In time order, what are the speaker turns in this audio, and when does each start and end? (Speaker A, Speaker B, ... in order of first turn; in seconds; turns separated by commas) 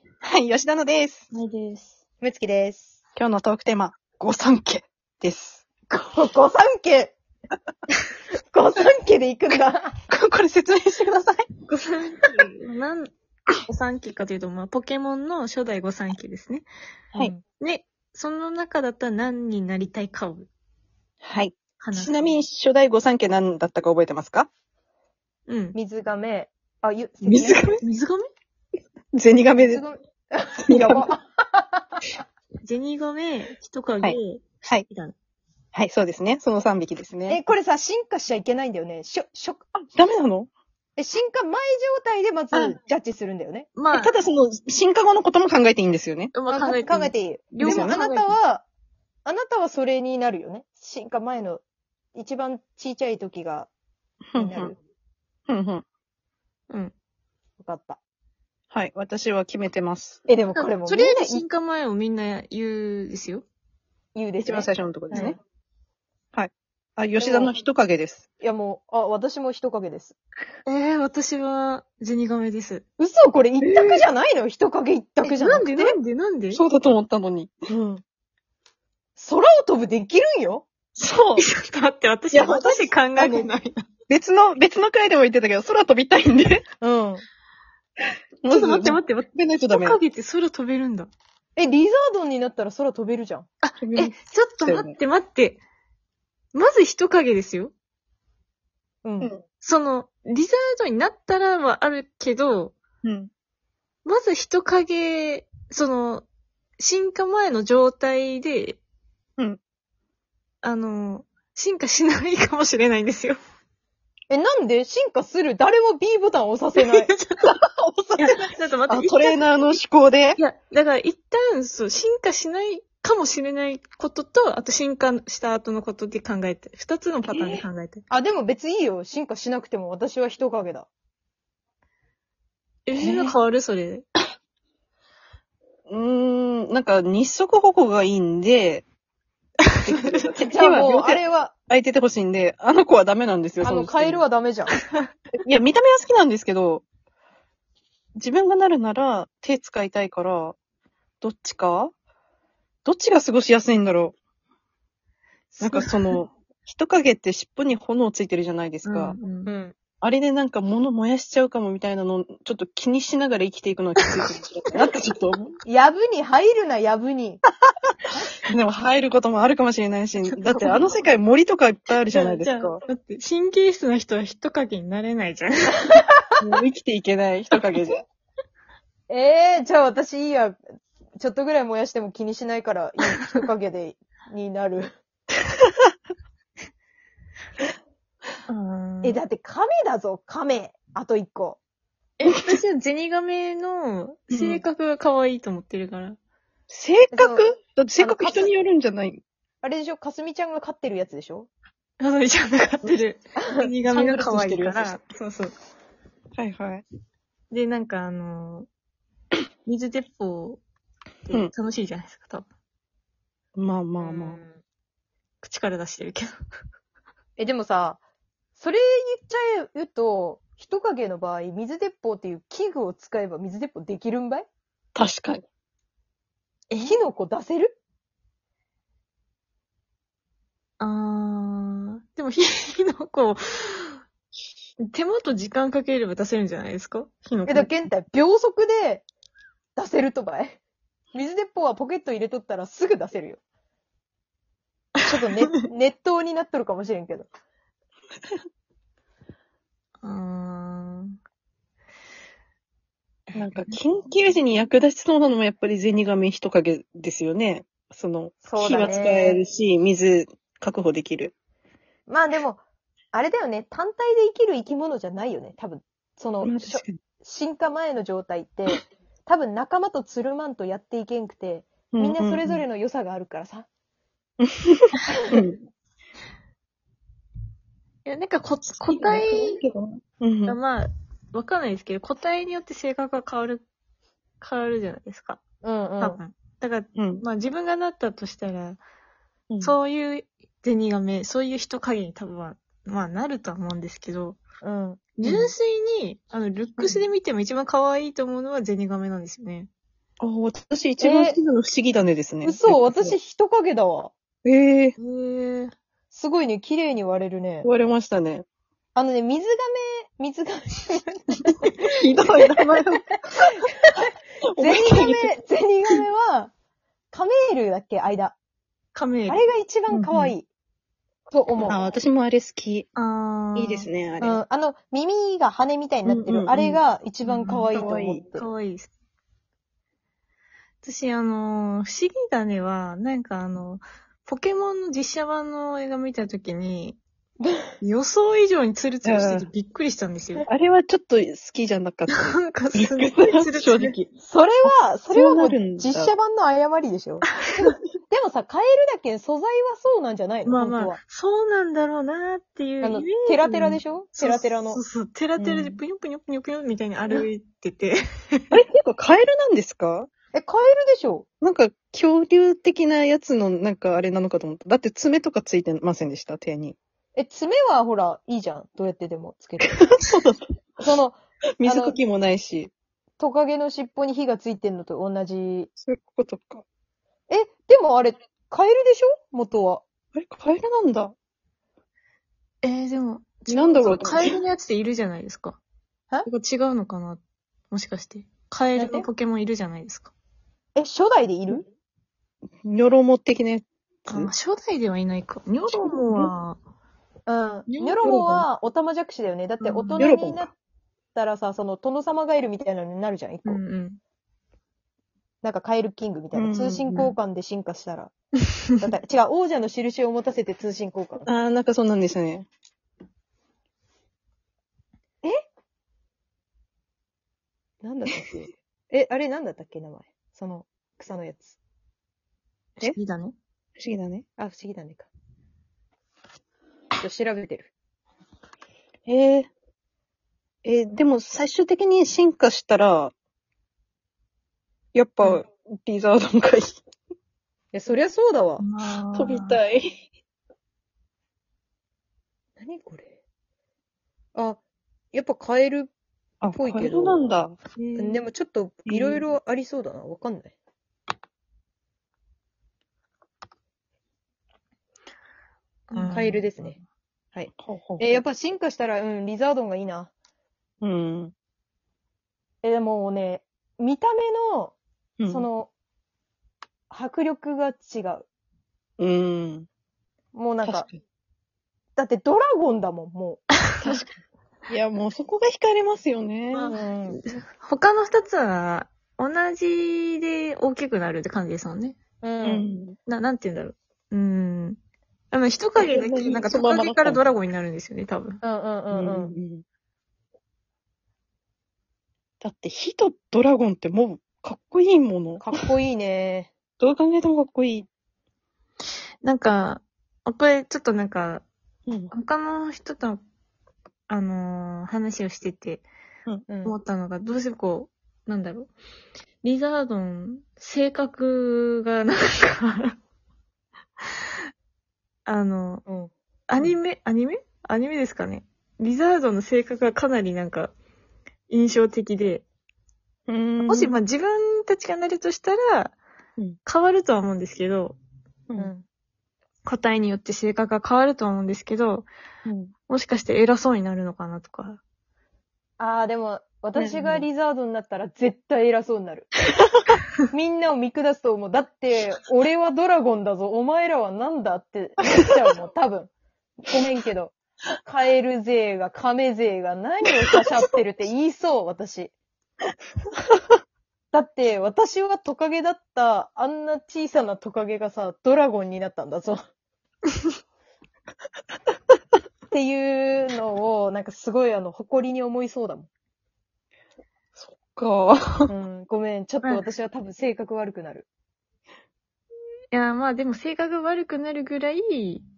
Speaker A: 0.2-1.2, Speaker B: 1.3-1.9, Speaker C: 2.2-3.0, Speaker A: 3.2-5.6, Speaker C: 5.9-7.2, Speaker C: 8.5-9.9, Speaker A: 10.1-11.7, Speaker B: 11.8-13.1, Speaker B: 13.6-16.6, Speaker C: 17.1-17.4, Speaker B: 17.6-20.5, Speaker A: 21.2-24.5, Speaker B: 21.8-22.3, Speaker B: 25.5-25.8, Speaker C: 25.7-27.7, Speaker A: 27.2-27.8, Speaker B: 27.8-28.3, Speaker A: 29.1-29.8, Speaker C: 29.5-31.9, Speaker A: 30.6-31.1, Speaker B: 32.6-35.1, Speaker A: 34.0-34.9, Speaker A: 35.7-37.4, Speaker C: 37.3-39.6, Speaker A: 39.9-40.5, Speaker C: 41.0-43.7, Speaker A: 42.5-42.8, Speaker B: 43.8-44.1, Speaker A: 43.9-46.3, Speaker B: 46.3-48.4, Speaker C: 46.5-48.7, Speaker A: 47.6-48.0, Speaker C: 49.2-51.6, Speaker C: 52.1-53.7, Speaker A: 54.3-54.7, Speaker C: 54.4-54.8, Speaker A: 55.5-55.9, Speaker C: 57.6-58.0, Speaker A: 58.7-60.2, Speaker C: 60.3-61.4, Speaker B: 60.5-63.5, Speaker C: 64.1-65.4, Speaker A: 64.4-65.3, Speaker A: 66.3-68.2, Speaker C: 67.2-67.5, Speaker C: 68.4-70.2, Speaker B: 70.7-72.8, Speaker C: 73.0-76.0, Speaker B: 75.2-76.6, Speaker A: 76.5-77.7, Speaker C: 77.7-78.0, Speaker C: 79.2-80.7, Speaker A: 81.0-81.4, Speaker B: 81.4-83.8, Speaker A: 82.3-83.5, Speaker A: 84.1-86.6, Speaker C: 86.8-87.2, Speaker A: 88.4-90.0, Speaker B: 88.5-91.1, Speaker C: 91.5-93.5, Speaker B: 93.6-95.6, Speaker A: 93.8-95.0, Speaker B: 96.5-97.7, Speaker C: 99.0-99.3, Speaker B: 99.6-102.7, Speaker A: 103.0-103.3, Speaker B: 104.0-106.2, Speaker B: 106.8-108.8, Speaker B: 110.6-113.4, Speaker C: 114.3-117.1, Speaker B: 116.8-117.5, Speaker A: 117.4-118.3, Speaker B: 118.2-119.4, Speaker A: 118.9-120.4, Speaker B: 120.4-128.0, Speaker C: 127.3-130.9, Speaker B: 132.9-134.0, Speaker C: 133.0-133.3, Speaker A: 135.9-138.8, Speaker A: 139.8-144.2, Speaker B: 139.9-140.2, Speaker C: 140.4-141.5, Speaker C: 143.6-144.8, Speaker A: 145.4-146.8, Speaker A: 148.2-150.6, Speaker A: 151.2-151.9, Speaker A: 152.8-154.1, Speaker A: 155.6-159.2, Speaker B: 158.8-159.5, Speaker C: 159.4-159.8, Speaker A: 160.0-165.6, Speaker C: 165.6-167.4, Speaker A: 168.5-172.8, Speaker B: 170.2-170.9, Speaker B: 172.1-175.9, Speaker A: 176.4-177.9, Speaker C: 179.1-180.6, Speaker C: 181.2-184.9, Speaker B: 188.5-189.2, Speaker C: 189.0-191.6, Speaker B: 192.2-196.2, Speaker A: 194.3-194.6, Speaker A: 196.7-199.2, Speaker C: 197.1-198.5, Speaker C: 199.6-201.5, Speaker B: 202.0-205.5, Speaker C: 203.4-204.8, Speaker A: 206.4-206.8, Speaker B: 207.5-208.7, Speaker B: 209.7-210.6, Speaker B: 211.2-212.4, Speaker A: 213.6-214.4, Speaker C: 214.0-214.6, Speaker B: 215.4-216.3, Speaker C: 217.4-218.0, Speaker C: 218.5-224.5, Speaker A: 224.9-225.4, Speaker B: 226.7-227.0, Speaker C: 226.8-227.8, Speaker B: 230.8-234.0, Speaker B: 234.8-237.1, Speaker A: 237.3-237.7, Speaker C: 237.5-239.0, Speaker C: 239.8-240.6, Speaker C: 241.1-243.4, Speaker C: 245.1-247.3, Speaker B: 245.1-245.5, Speaker B: 250.0-251.2, Speaker B: 253.3-253.8, Speaker A: 253.3-261.3, Speaker C: 258.4-259.4, Speaker C: 262.1-273.7, Speaker A: 266.4-267.0, Speaker A: 271.9-272.6, Speaker A: 274.4-275.6, Speaker B: 278.1-279.6, Speaker A: 278.9-280.6, Speaker B: 280.5-283.6, Speaker B: 284.4-285.4, Speaker C: 285.6-286.2, Speaker B: 286.0-288.8, Speaker A: 286.9-287.2, Speaker A: 289.5-289.8, Speaker B: 289.6-294.4, Speaker C: 294.6-295.0, Speaker B: 295.2-299.7, Speaker A: 295.2-295.5, Speaker A: 300.2-303.1, Speaker C: 301.0-301.4, Speaker C: 302.4-304.1, Speaker A: 304.4-304.9, Speaker B: 305.0-305.7, Speaker C: 306.1-307.7, Speaker A: 307.6-308.4, Speaker C: 308.9-311.2, Speaker A: 311.9-313.2, Speaker A: 314.4-315.3, Speaker C: 314.6-316.5, Speaker C: 317.1-318.4, Speaker B: 318.9-319.4, Speaker C: 319.3-320.5, Speaker A: 319.9-320.3, Speaker C: 321.3-321.9, Speaker A: 321.6-322.9, Speaker B: 322.9-323.9, Speaker A: 323.5-324.4, Speaker C: 324.2-328.5, Speaker A: 326.1-326.8, Speaker B: 327.2-327.7, Speaker A: 327.7-328.2, Speaker B: 328.3-328.9, Speaker B: 330.8-337.0, Speaker B: 337.8-340.5, Speaker A: 339.0-339.5, Speaker A: 340.4-342.2, Speaker B: 342.1-344.0, Speaker A: 342.8-344.1, Speaker C: 344.2-351.0, Speaker A: 345.1-346.1, Speaker B: 350.4-358.6, Speaker C: 352.8-354.8, Speaker C: 355.4-355.8, Speaker A: 358.5-360.1, Speaker C: 360.3-361.3, Speaker A: 361.4-366.8, Speaker C: 367.1-369.8, Speaker A: 369.6-370.4, Speaker C: 370.8-372.0, Speaker A: 371.6-372.7, Speaker C: 373.2-375.7, Speaker A: 375.8-376.6, Speaker C: 377.3-379.8, Speaker A: 380.1-381.1, Speaker B: 382.6-385.6, Speaker A: 383.5-384.4, Speaker B: 386.2-387.2, Speaker B: 387.7-390.1, Speaker C: 388.8-389.1, Speaker C: 390.8-391.7, Speaker A: 392.6-394.3, Speaker B: 394.1-396.6, Speaker C: 397.3-400.5, Speaker B: 397.7-398.1, Speaker A: 398.0-398.4, Speaker B: 399.6-400.1, Speaker A: 400.0-400.5, Speaker C: 401.1-403.6, Speaker B: 403.4-404.0, Speaker C: 405.4-408.1, Speaker A: 406.3-406.9, Speaker C: 408.8-411.3, Speaker A: 411.2-412.5, Speaker C: 417.8-421.6, Speaker B: 422.8-423.3, Speaker A: 423.8-424.2, Speaker C: 424.4-425.1, Speaker C: 427.0-427.7, Speaker A: 429.1-429.5, Speaker A: 430.6-433.1, Speaker A: 434.9-436.8, Speaker C: 437.7-438.6, Speaker B: 438.6-439.6, Speaker A: 439.1-439.9, Speaker C: 442.6-443.1, Speaker C: 444.3-444.6, Speaker C: 445.1-445.9, Speaker A: 446.4-447.6, Speaker C: 446.5-447.2, Speaker B: 447.8-448.2, Speaker C: 447.9-450.6, Speaker A: 448.9-449.2, Speaker B: 455.9-456.5, Speaker C: 455.9-456.8, Speaker C: 457.3-460.1, Speaker A: 457.6-458.2, Speaker A: 460.8-461.3, Speaker C: 462.6-464.8, Speaker A: 465.2-465.5, Speaker C: 465.3-465.7, Speaker C: 466.9-468.2, Speaker A: 469.0-469.7, Speaker C: 470.3-470.9, Speaker A: 470.6-471.0, Speaker C: 471.9-473.5, Speaker A: 473.8-474.1, Speaker A: 474.7-476.7, Speaker B: 476.5-482.0, Speaker C: 476.7-477.2, Speaker C: 482.2-482.7, Speaker A: 482.4-483.0, Speaker B: 483.1-484.8, Speaker B: 485.3-488.4, Speaker A: 485.8-487.3, Speaker C: 488.4-489.3, Speaker A: 488.9-489.6, Speaker A: 492.4-495.5, Speaker C: 495.4-496.5, Speaker A: 496.8-497.9, Speaker B: 499.2-501.4, Speaker A: 501.9-502.1, Speaker B: 502.1-503.2, Speaker B: 504.1-505.9, Speaker C: 506.5-506.8, Speaker B: 506.6-508.7, Speaker B: 509.4-513.0, Speaker B: 515.2-515.9, Speaker C: 515.9-516.1, Speaker B: 516.5-520.7, Speaker B: 521.5-522.4, Speaker A: 523.3-524.0, Speaker B: 523.6-526.0, Speaker B: 526.6-528.0, Speaker C: 528.6-528.9, Speaker B: 529.6-532.1, Speaker A: 532.5-532.7, Speaker B: 532.9-534.8, Speaker C: 535.8-539.3, Speaker B: 536.8-537.3, Speaker C: 540.3-546.1, Speaker C: 546.6-552.1, Speaker C: 554.1-559.4, Speaker C: 562.5-565.9, Speaker A: 567.4-568.5, Speaker C: 568.5-571.1, Speaker B: 572.7-575.2